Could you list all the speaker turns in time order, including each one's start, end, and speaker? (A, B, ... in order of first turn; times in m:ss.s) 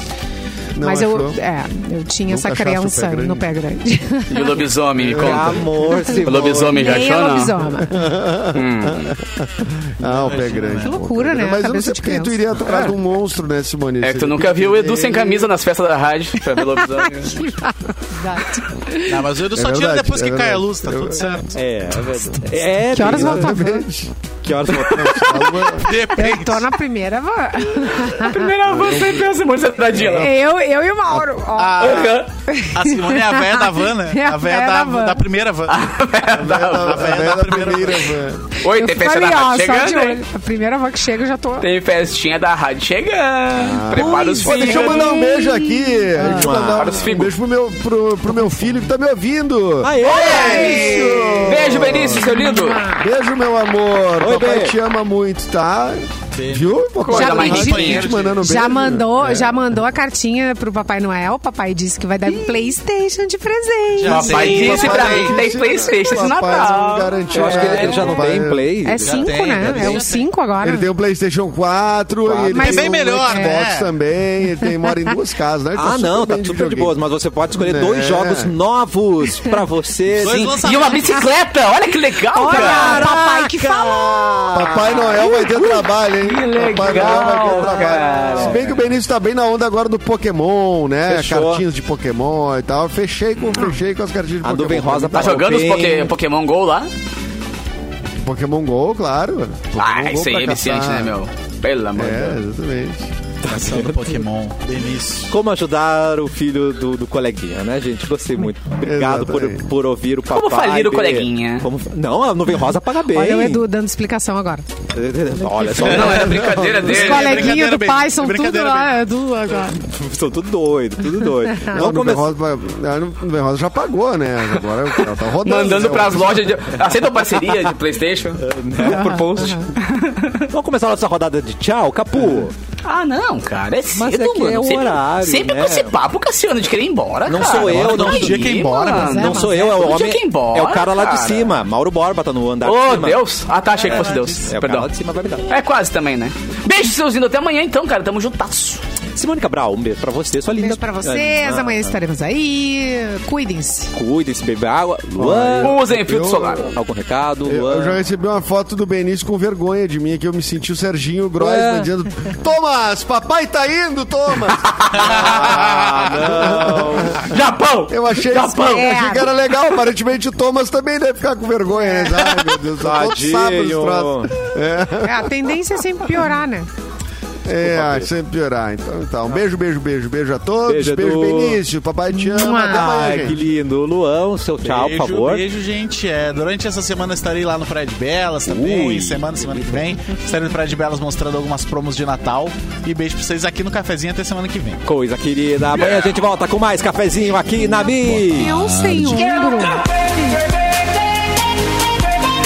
0:00.8-0:01.4 A
0:00.8-0:04.6 B
0:02.3-0:03.5 A
0:04.3-0:07.5 C
0:05.0-0:05.6 A
0:05.1-0:07.0 D
0:05.8-0:08.0 B
0:07.8-0:15.5 A
0:08.5-0:09.1 C
0:10.0-0:10.9 E
0:10.8-0:12.4 B
0:14.0-0:17.5 C
0:16.6-0:19.2 B
0:19.0-0:21.6 E
0:19.5-0:21.4 A
0:21.5-0:23.7 D
0:22.9-0:23.8 B
0:22.9-0:24.1 A
0:24.4-0:25.5 D
0:24.8-0:26.0 A
0:25.5-0:25.7 C
0:25.8-0:26.7 E
0:26.1-0:28.5 B
0:27.9-0:30.3 C
0:28.6-0:29.3 A
0:29.9-0:30.3 A
0:30.1-0:35.2 B
0:31.5-0:35.8 E
0:31.8-0:32.3 C
0:35.7-0:37.0 C
0:36.3-0:38.4 A
0:36.7-0:38.2 E
0:38.6-0:41.7 B
0:38.6-0:40.2 C
0:41.6-0:45.1 C
0:43.6-0:52.3 A
0:43.9-0:46.5 B
0:46.2-0:47.1 D
0:46.4-0:47.3 C
0:49.8-0:51.6 D
0:50.0-0:52.8 C
0:50.3-0:53.1 B
0:53.0-0:59.6 A
0:54.2-0:54.8 D
0:56.3-0:58.4 E
0:57.0-0:58.1 C
0:57.1-1:04.5 B
1:04.0-1:05.5 E
1:04.0-1:08.2 C
1:04.3-1:08.7 A
1:07.3-1:10.0 D
1:08.4-1:10.9 B
1:09.0-1:10.3 E
1:10.6-1:16.9 A
1:12.2-1:12.5 D
1:12.5-1:13.9 E
1:12.5-1:13.6 B
1:15.7-1:20.6 D
1:17.6-1:18.5 A
1:20.2-1:21.3 E
1:20.6-1:23.1 C
1:22.3-1:25.3 B
1:22.5-1:25.1 D
1:24.5-1:35.4 A
1:25.1-1:28.8 C
1:26.7-1:28.8 D
1:31.0-1:31.6 D
1:34.4-1:36.1 D
1:35.1-1:36.9 C
1:38.2-1:41.1 A
1:39.8-1:42.4 C
1:42.0-1:43.1 A
1:43.4-1:44.2 D
1:43.4-1:45.3 E
1:45.3-1:53.6 D
1:48.8-1:49.6 A
1:50.3-1:51.7 C
1:53.0-1:54.6 B
1:54.9-1:56.5 D
1:55.5-1:56.2 B
1:55.7-1:57.6 C
1:55.8-1:57.2 A
1:56.8-1:59.0 E
1:56.8-1:59.8 B
1:59.7-2:02.3 D
2:01.7-2:06.5 A
2:05.4-2:08.4 C
2:08.4-2:09.7 D
2:08.8-2:09.7 B
2:09.8-2:10.4 C
2:10.5-2:12.5 D
2:12.8-2:21.5 C
2:13.9-2:15.9 D
2:17.3-2:23.2 D
2:17.6-2:19.2 E
2:18.7-2:19.8 B
2:22.6-2:24.9 C
2:23.8-2:24.5 E
2:23.8-2:25.5 D
2:25.4-2:28.8 C
2:29.1-2:32.0 D
2:30.5-2:33.9 B
2:33.9-2:35.8 D
2:35.2-2:36.7 A
2:35.6-2:36.7 C
2:36.6-2:38.0 D
2:37.4-2:45.6 A
2:41.4-2:41.9 D
2:44.6-2:45.3 C
2:45.0-2:46.2 E
2:45.0-2:47.3 D
2:46.2-2:55.3 A
2:47.2-2:49.1 C
2:48.6-2:49.3 B
2:51.7-2:52.4 B
2:52.8-2:54.3 D
2:55.0-2:56.7 B
2:57.4-3:03.4 A
2:57.6-2:58.1 D
3:00.6-3:01.6 D
3:02.2-3:03.2 B
3:02.4-3:05.4 D
3:04.6-3:14.8 E
3:08.4-3:10.0 D
3:14.8-3:18.5 D
3:18.0-3:19.3 E
3:18.2-3:20.4 B
3:19.2-3:19.8 C